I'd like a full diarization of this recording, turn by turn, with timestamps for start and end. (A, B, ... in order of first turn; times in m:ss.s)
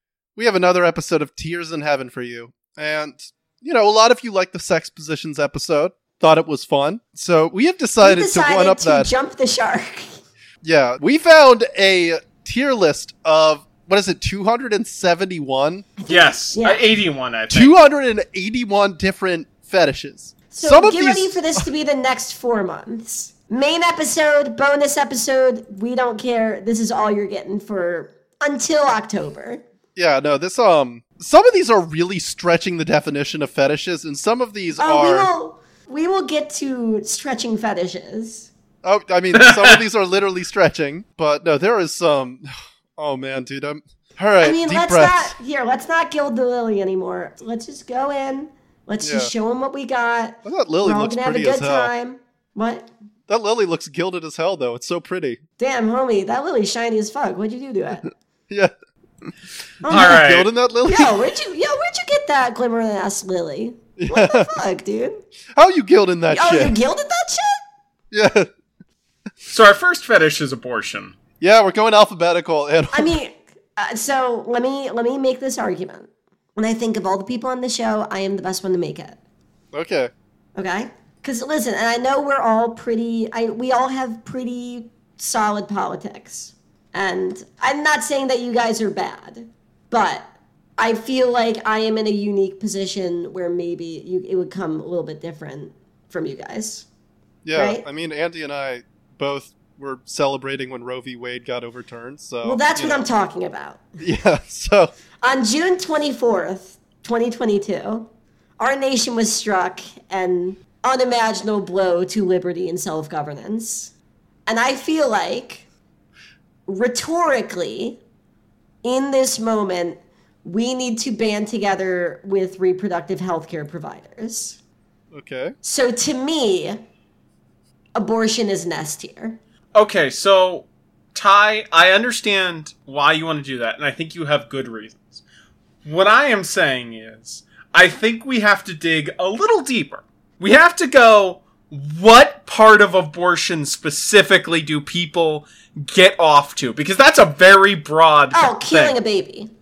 0:00.4-0:09.1 A
0:08.0-0:10.1 B
0:10.6-0:15.9 A
0:16.0-0:16.8 B
0:16.1-0:17.8 C
0:17.5-0:21.6 A
0:20.5-0:29.6 B
0:30.0-0:35.3 A
0:34.8-0:38.5 B
0:38.8-0:45.3 A
0:39.3-0:39.8 C
0:44.4-0:52.9 B
0:49.0-0:49.3 A
0:50.4-0:51.9 A
0:53.3-0:55.4 A
0:55.6-0:58.1 B
0:59.8-1:00.2 B
0:59.9-1:01.2 A
0:59.9-1:00.5 C
1:00.8-1:05.2 B
1:04.0-1:04.5 A
1:05.6-1:06.7 A
1:06.3-1:07.6 B
1:08.1-1:08.5 A
1:09.5-1:11.1 C
1:11.4-1:13.1 A
1:12.9-1:19.2 B
1:19.7-1:20.1 A
1:20.6-1:36.9 B
1:37.4-1:43.1 A
1:37.5-1:37.8 B
1:42.4-1:43.8 B
1:44.0-1:44.9 A
1:45.2-1:48.1 B
1:48.6-1:53.9 B
1:54.5-1:55.6 B
1:56.7-1:58.0 B
1:58.8-2:04.6 B
2:05.1-2:05.5 A
2:05.6-2:06.8 B
2:07.9-2:09.4 B
2:09.7-2:15.2 C
2:15.8-2:29.0 C
2:28.3-2:29.5 B